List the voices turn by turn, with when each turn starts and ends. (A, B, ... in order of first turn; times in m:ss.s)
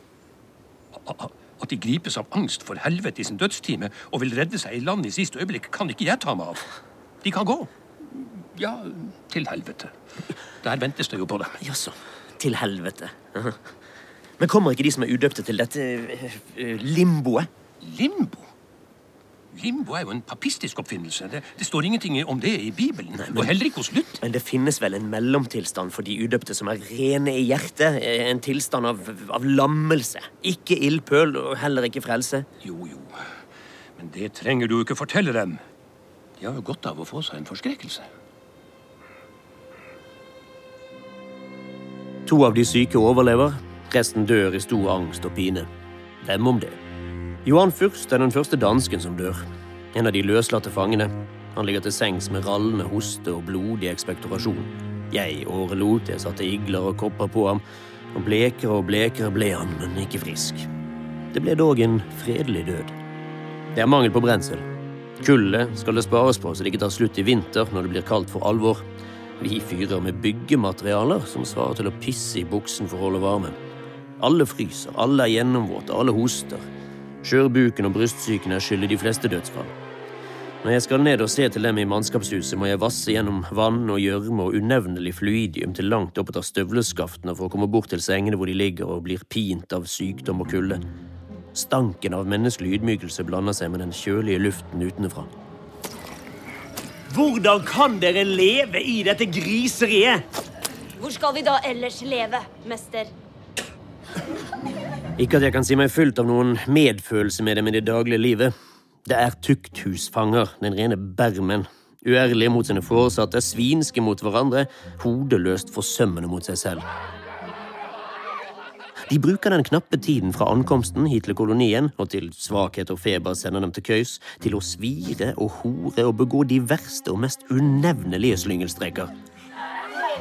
0:01.0-0:06.6 A
0:07.2-0:09.9 A
0:10.6-0:11.6 A
0:11.6-0:13.6 B
0:14.4-0:17.5 B
0:17.8-0:18.5 A
0:19.5-0:24.2 A
0:23.2-0:23.5 B
0:24.2-0:32.5 B
0:32.6-0:33.1 A
0:34.0-0:35.6 A
0:36.4-0:38.1 A
0:42.2-0:45.7 B
0:46.2-0:46.8 B
0:47.4-0:57.6 B
0:58.1-1:00.7 B
1:01.3-1:02.9 B
1:03.7-1:04.6 B
1:05.2-1:08.8 B
1:09.4-1:13.6 B
1:14.2-1:16.6 B
1:17.2-1:19.7 B
1:20.6-1:30.8 B
1:31.5-1:35.3 B
1:37.1-1:40.2 B
1:41.0-1:43.1 C
1:45.2-1:48.5 B
1:49.1-1:56.8 B
1:59.1-2:09.1 B